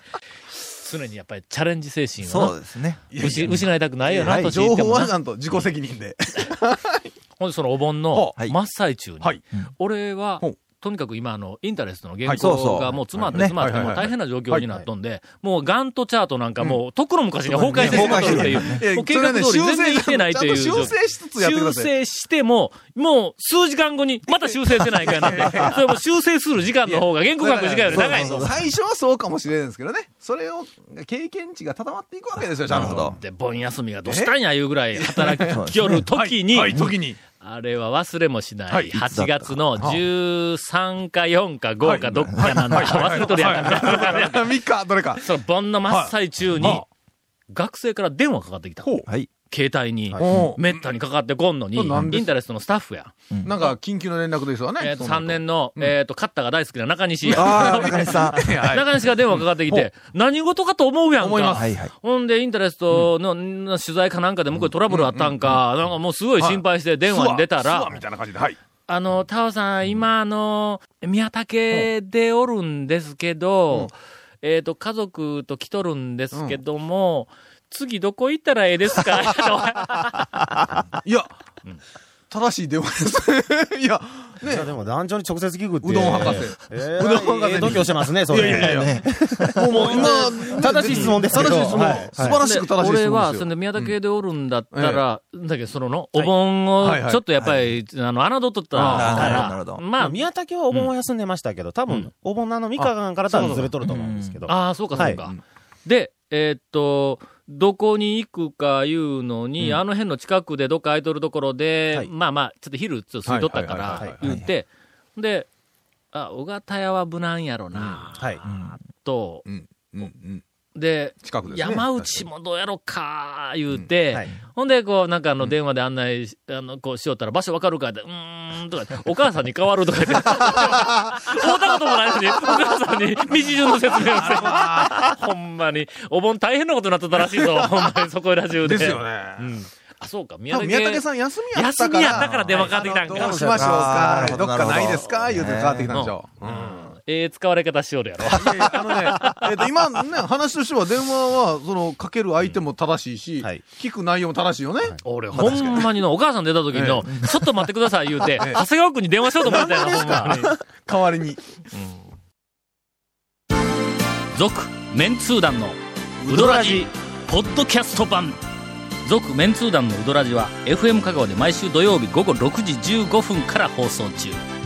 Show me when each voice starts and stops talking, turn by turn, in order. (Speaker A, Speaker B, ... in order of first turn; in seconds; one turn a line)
Speaker A: 0.8-2.6
Speaker B: 2.2-4.5
Speaker C: 3.1-7.1
Speaker A: 3.1-5.6
Speaker A: 7.4-28.5
Speaker C: 12.2-12.5
Speaker B: 12.3-13.6
Speaker C: 13.2-14.7
Speaker C: 17.5-21.9
Speaker B: 17.7-18.8
Speaker C: 25.0-25.8
Speaker C: 26.8-33.1
Speaker B: 27.9-28.6
Speaker B: 32.4-33.2
Speaker A: 32.7-36.8
Speaker C: 34.0-34.3
Speaker C: 34.9-37.2
Speaker B: 35.4-36.0
Speaker B: 36.7-36.9
Speaker A: 37.4-44.5
Speaker C: 38.7-39.0
Speaker B: 39.0-40.0
Speaker C: 41.8-45.3
Speaker A: 45.2-46.8
Speaker C: 45.9-46.9
Speaker A: 47.5-48.9
Speaker C: 48.8-49.1
Speaker A: 49.5-53.1
Speaker C: 50.2-50.9
Speaker B: 50.2-50.5
Speaker C: 51.7-52.3
Speaker C: 53.4-55.9
Speaker A: 54.8-68.0
Speaker C: 57.2-59.9
Speaker B: 57.2-58.5
Speaker C: 61.2-61.7
Speaker B: 61.5-61.9
Speaker C: 64.9-65.6
Speaker C: 66.4-68.6
Speaker A: 68.9-80.3
Speaker C: 76.3-76.6
Speaker C: 81.0-81.3
Speaker C: 82.3-84.7
Speaker D: 84.4-92.4
Speaker C: 85.8-89.0
Speaker B: 88.5-89.7
Speaker C: 89.5-94.0
Speaker A: 89.7-100.9
Speaker C: 94.7-95.0
Speaker C: 96.8-97.2
Speaker B: 97.3-97.8
Speaker C: 98.7-99.5
Speaker B: 98.8-99.8
Speaker D: 100.0-105.2
Speaker C: 102.8-103.7
Speaker B: 103.8-104.5
Speaker A: 104.5-115.5
Speaker C: 104.7-105.4
Speaker C: 113.2-114.2
Speaker D: 114.0-114.3
Speaker B: 114.2-114.5
Speaker A: 116.1-119.4
Speaker C: 117.7-118.1
Speaker D: 118.2-118.4
Speaker B: 118.4-118.8
Speaker C: 119.4-120.4
Speaker A: 120.7-139.0
Speaker C: 121.2-122.2
Speaker D: 124.0-124.3
Speaker C: 133.9-135.1
Speaker C: 137.1-137.8
Speaker C: 138.6-139.6
Speaker A: 140.0-143.6
Speaker C: 140.5-146.9
Speaker D: 142.2-144.4
Speaker B: 143.4-146.0
Speaker A: 145.9-149.7
Speaker C: 148.2-155.9
Speaker D: 154.8-155.5
Speaker A: 155.0-160.5
Speaker C: 156.7-157.2
Speaker C: 158.4-158.6
Speaker C: 159.4-161.4
Speaker A: 161.7-162.1
Speaker A: 164.3-168.4
Speaker B: 166.4-166.6
Speaker A: 169.0-174.4